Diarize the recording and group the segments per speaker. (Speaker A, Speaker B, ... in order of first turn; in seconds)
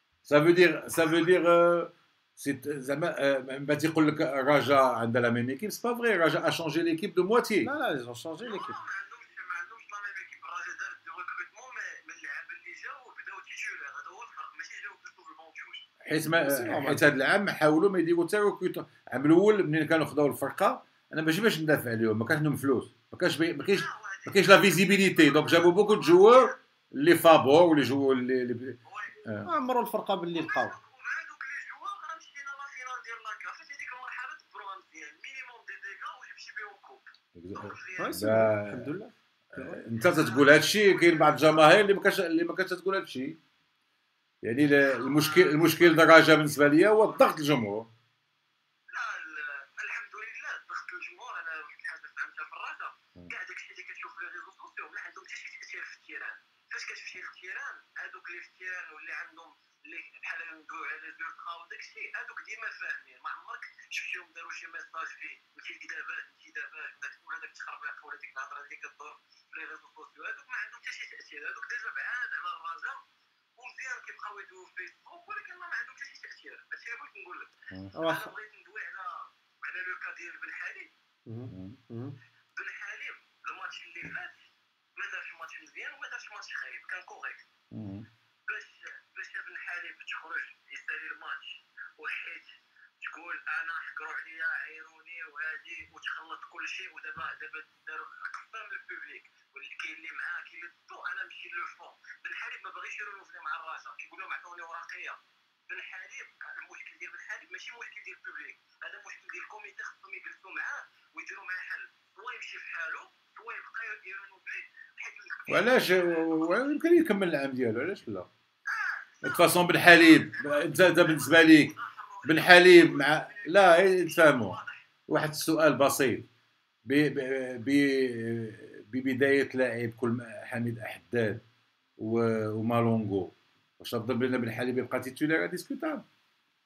Speaker A: 0.2-7.7, 16.0-29.5, 37.3-38.9, 39.5-43.4, 44.4-47.9, 81.5-81.8, 87.7-88.1, 115.5-118.3, 119.2-126.3, 126.8-131.4, 132.0-136.1
Speaker B: 7.6-8.8, 16.2-17.1, 29.4-30.7, 38.0-39.9, 77.9-78.3, 81.3-82.2
Speaker C: 8.4-15.8, 23.6-26.6, 28.8-29.2, 30.3-38.2, 39.9-41.9, 44.8-47.3, 48.9-73.0, 73.6-80.9, 82.5-87.4, 88.5-116.7, 118.7-124.8